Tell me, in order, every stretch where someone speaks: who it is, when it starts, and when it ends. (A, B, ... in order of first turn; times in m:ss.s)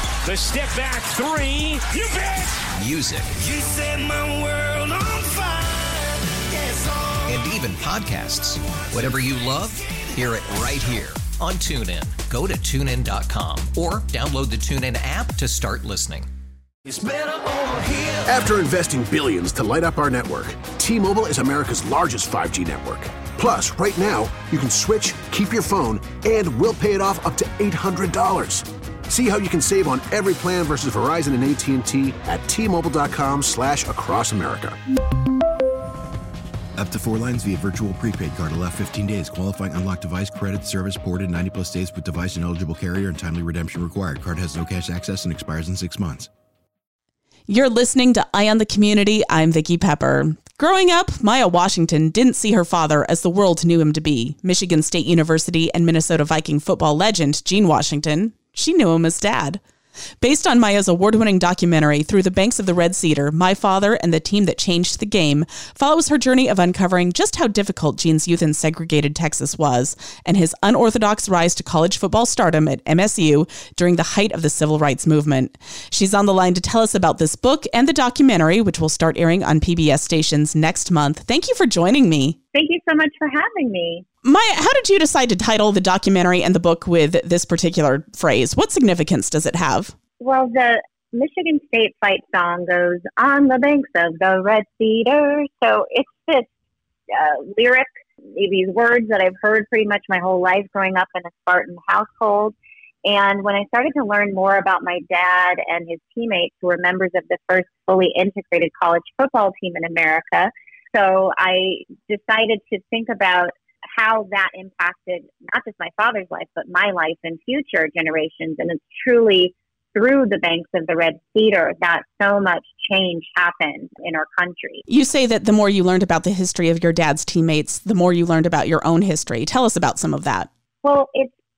0:00.2-0:02.6 A
0:02.8-0:03.5 B
0:03.5-0:06.1 C
0:07.3-0:16.3 B
0:17.1-0:34.8 D
0:36.8-0:46.3 E
0:47.5-0:59.6 F
1:00.2-1:22.4 F
1:22.5-1:24.0 G
1:24.2-1:29.9 F
1:30.2-1:36.5 G
1:37.1-1:42.6 G
1:43.1-2:04.8 G
2:04.9-2:10.5 F
2:10.8-2:11.4 G